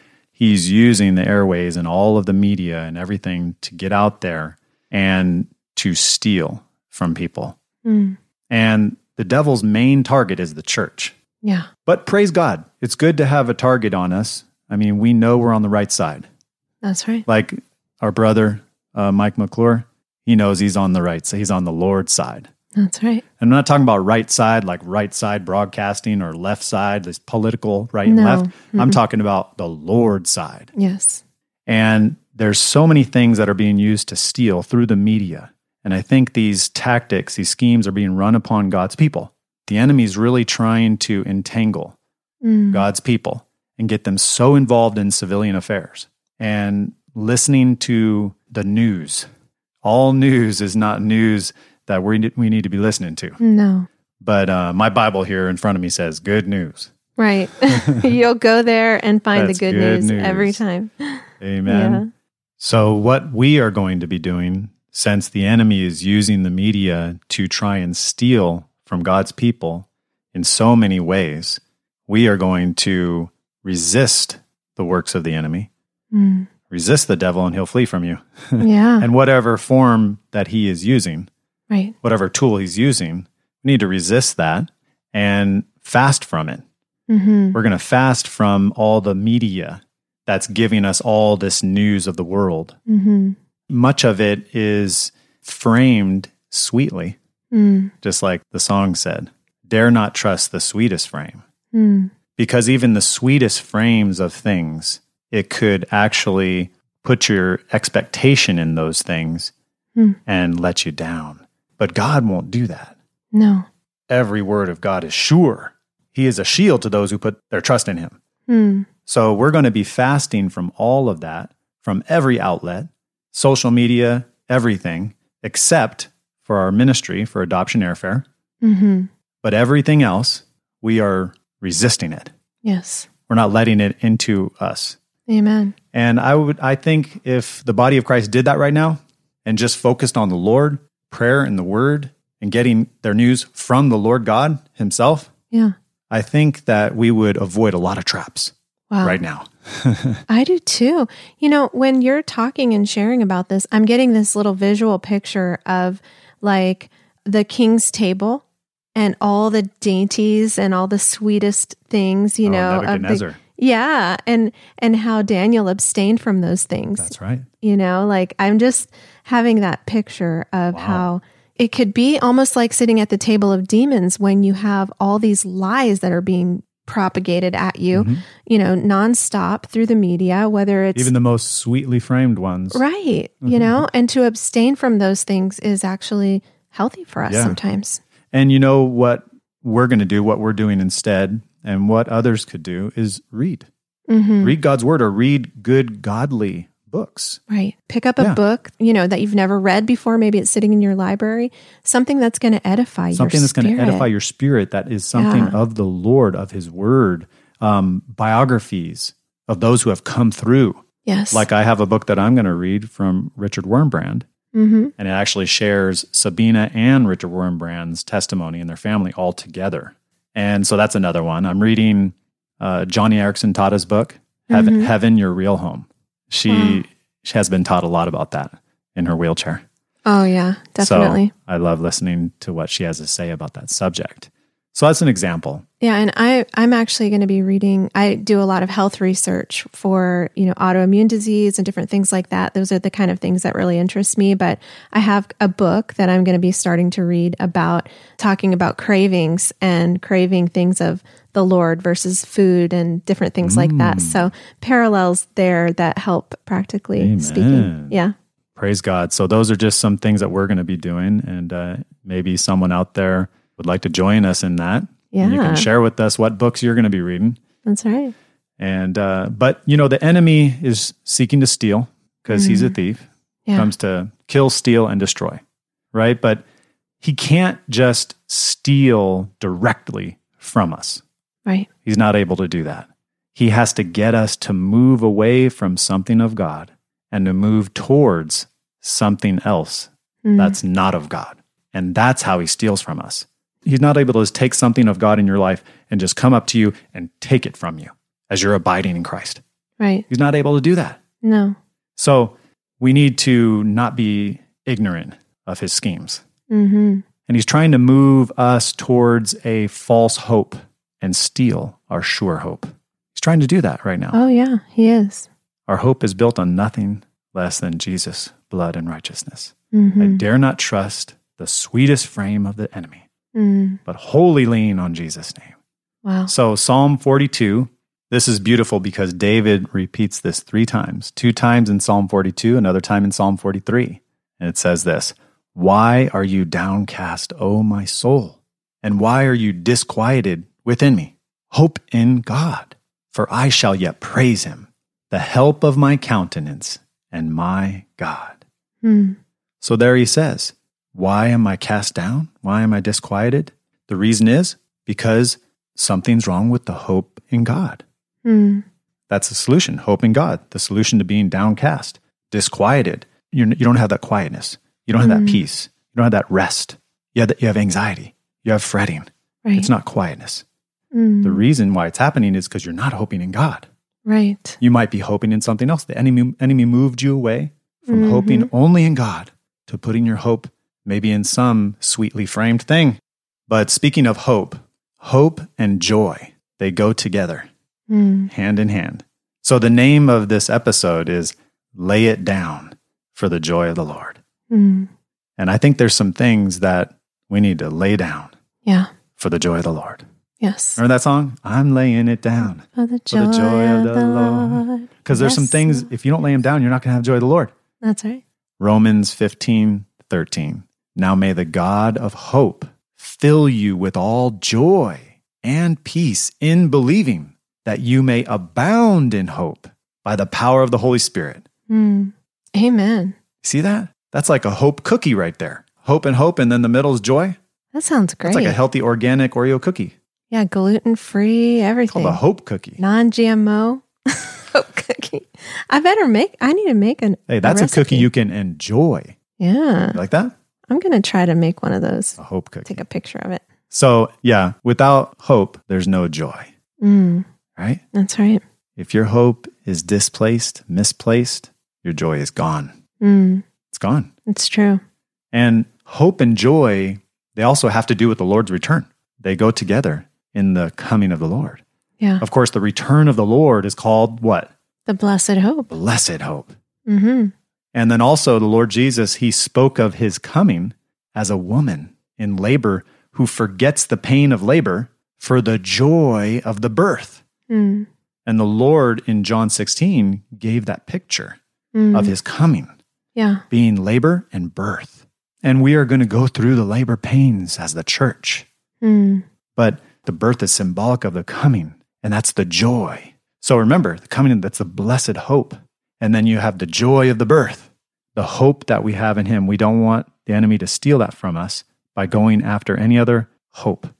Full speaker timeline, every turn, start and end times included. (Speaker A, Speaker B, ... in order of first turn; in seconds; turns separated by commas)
Speaker A: 0.4-7.6, Speaker B: 7.8-8.2, Speaker A: 8.5-11.2, Speaker B: 11.4-11.7, Speaker A: 11.9-16.3, Speaker B: 16.8-17.2, Speaker A: 17.3-22.5, Speaker B: 22.8-23.2, Speaker A: 23.4-30.7, Speaker B: 28.1-29.0, Speaker B: 30.8-31.2, Speaker A: 31.7-42.0, Speaker B: 42.4-42.9, Speaker A: 42.7-49.3, Speaker A: 49.8-53.4, Speaker B: 53.4-53.9, Speaker A: 54.2-56.9, Speaker B: 57.2-62.1, Speaker A: 57.7-58.1, Speaker A: 59.3-60.6, Speaker A: 61.4-62.0, Speaker A: 62.6-75.7, Speaker B: 76.1-76.5, Speaker A: 76.7-81.3, Speaker B: 78.6-79.1, Speaker B: 81.7-82.0, Speaker A: 82.0-86.6, Speaker B: 87.1-87.6, Speaker A: 87.5-92.8, Speaker B: 92.9-93.4, Speaker A: 93.7-97.2, Speaker B: 97.5-97.9, Speaker A: 98.0-101.4, Speaker B: 101.7-102.1, Speaker A: 102.4-109.5, Speaker A: 110.3-113.0, Speaker B: 113.3-113.7, Speaker A: 114.1-118.2, Speaker B: 118.5-118.9, Speaker A: 119.1-128.2, Speaker B: 128.6-129.1, Speaker A: 129.4-132.3, Speaker B: 132.6-133.1, Speaker A: 133.3-135.0, Speaker B: 135.3-135.8, Speaker A: 135.9-145.3, Speaker A: 146.1-150.2, Speaker B: 148.9-149.2, Speaker B: 150.3-158.4, Speaker B: 158.9-181.1, Speaker A: 162.4-163.4, Speaker A: 167.0-167.5, Speaker A: 170.7-171.1, Speaker A: 177.9-178.2, Speaker A: 180.9-182.8, Speaker B: 182.7-188.0, Speaker A: 183.4-183.8, Speaker A: 187.3-187.6, Speaker A: 188.3-193.7, Speaker B: 194.1-194.6, Speaker A: 194.4-197.4, Speaker B: 197.5-204.1, Speaker A: 203.1-214.3, Speaker B: 205.1-205.6, Speaker B: 211.1-211.4, Speaker B: 214.5-214.9, Speaker A: 215.0-229.6, Speaker B: 224.5-224.9, Speaker B: 226.5-226.8, Speaker B: 230.1-231.3, Speaker A: 230.8-235.7, Speaker B: 235.8-258.1, Speaker A: 253.4-254.3, Speaker A: 257.0-257.9, Speaker A: 258.6-267.4, Speaker B: 265.1-265.7, Speaker B: 267.6-268.1, Speaker A: 268.6-275.4, Speaker B: 272.3-272.8, Speaker A: 275.9-276.4, Speaker A: 277.0-281.0, Speaker A: 281.9-299.4, Speaker B: 290.2-290.6, Speaker B: 299.8-300.1, Speaker A: 300.1-301.0, Speaker B: 301.2-301.6, Speaker A: 302.0-306.2, Speaker B: 306.5-307.1, Speaker A: 307.3-314.2, Speaker B: 314.1-315.3, Speaker A: 315.7-323.1, Speaker B: 319.7-320.2, Speaker B: 323.3-323.8, Speaker A: 323.9-325.6, Speaker B: 326.1-326.3, Speaker A: 326.3-348.4, Speaker B: 348.8-349.2, Speaker A: 349.6-357.8, Speaker B: 358.2-358.6, Speaker A: 359.1-370.4, Speaker B: 365.0-365.4, Speaker B: 370.9-371.4, Speaker A: 371.2-373.7, Speaker B: 374.1-374.6, Speaker A: 374.6-387.5, Speaker B: 377.9-378.5, Speaker B: 387.9-388.3, Speaker A: 388.3-394.2, Speaker B: 394.5-394.9, Speaker A: 395.4-398.3, Speaker B: 398.6-398.9, Speaker A: 399.2-400.0, Speaker B: 400.4-400.8, Speaker A: 400.8-407.5, Speaker B: 402.8-405.9, Speaker B: 407.8-408.2, Speaker A: 408.6-421.4, Speaker B: 421.7-423.2, Speaker A: 423.4-427.4, Speaker B: 427.7-428.6, Speaker A: 428.2-429.9, Speaker B: 430.3-432.2, Speaker A: 431.9-432.8, Speaker B: 432.8-438.1, Speaker A: 437.3-439.2, Speaker B: 439.4-440.0, Speaker A: 439.9-440.3, Speaker B: 440.7-443.4, Speaker A: 442.2-442.8, Speaker A: 443.7-446.5, Speaker B: 446.8-447.2, Speaker A: 447.6-447.8, Speaker B: 447.9-448.4, Speaker A: 448.8-452.7, Speaker B: 453.0-453.4, Speaker A: 453.7-454.1, Speaker B: 454.3-454.8, Speaker A: 455.3-461.6, Speaker A: 462.2-464.5, Speaker B: 464.9-465.7, Speaker A: 465.7-466.5, Speaker B: 466.9-467.3, Speaker A: 467.7-477.2, Speaker B: 477.5-477.9, Speaker A: 478.3-481.4, Speaker B: 481.7-482.1, Speaker A: 481.9-482.7, Speaker B: 483.1-483.4, Speaker A: 483.5-488.5, Speaker B: 488.8-489.2, Speaker A: 489.6-503.9